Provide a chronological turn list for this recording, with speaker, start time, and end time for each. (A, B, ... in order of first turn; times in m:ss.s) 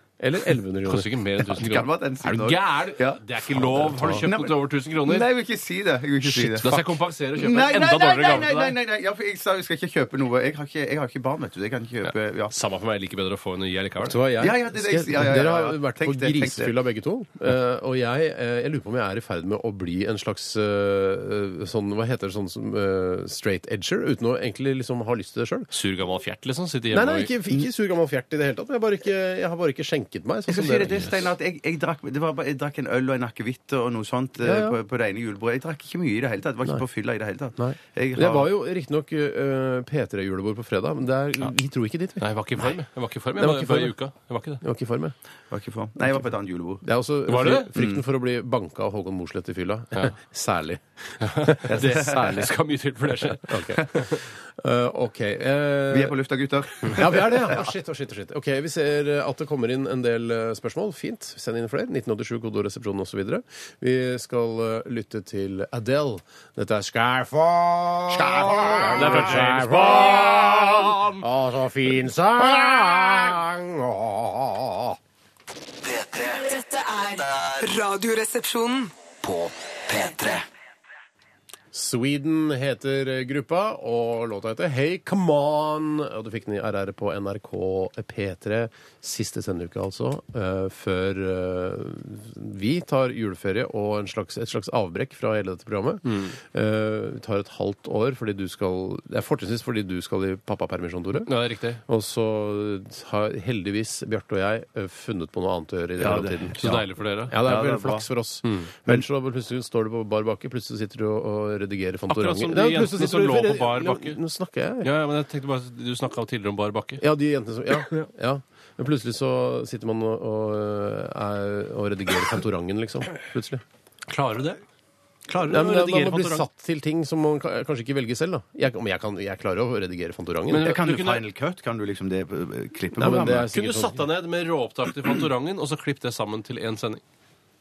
0:00.2-0:01.2 A
0:00.8-0:05.3 B
0:01.5-0:06.7 C
0:03.7-0:04.2 A
0:06.2-0:08.8 B
0:07.3-0:12.5 C
0:12.0-0:14.2 B
0:14.0-0:25.7 A
0:14.4-0:16.7 C
0:25.7-0:27.3 B
0:26.9-0:31.1 A
0:30.5-0:38.5 C
0:34.4-0:34.8 A
0:37.6-0:42.6 A
0:42.2-0:44.6 B
0:43.4-0:43.9 A
0:44.6-0:45.1 A
0:45.5-0:46.8 C
0:46.8-0:52.5 A
0:47.3-0:47.7 B
0:47.7-0:48.0 C
0:51.2-0:54.2 B
0:51.7-0:52.1 C
0:53.4-0:56.2 A
0:55.9-0:57.7 C
0:56.8-1:15.0 A
1:08.2-1:09.4 C
1:08.6-1:11.2 B
1:15.8-1:16.5 D
1:16.4-1:18.9 E
1:17.3-1:17.5 D
1:19.2-1:20.4 D
1:21.7-1:41.3 A
1:36.1-1:36.3 B
1:41.2-1:41.8 B
1:41.8-1:54.9 A
1:46.0-1:46.8 C
1:46.5-1:47.4 B
1:47.4-1:48.1 C
1:52.1-1:54.2 B
1:54.8-1:57.0 B
1:57.0-2:03.6 A
1:57.7-1:58.0 B
2:04.1-2:04.6 B
2:05.3-2:06.5 B
2:05.4-2:10.7 A
2:10.5-2:11.2 B
2:10.5-2:13.5 C
2:13.0-2:14.0 A
2:13.2-2:17.0 B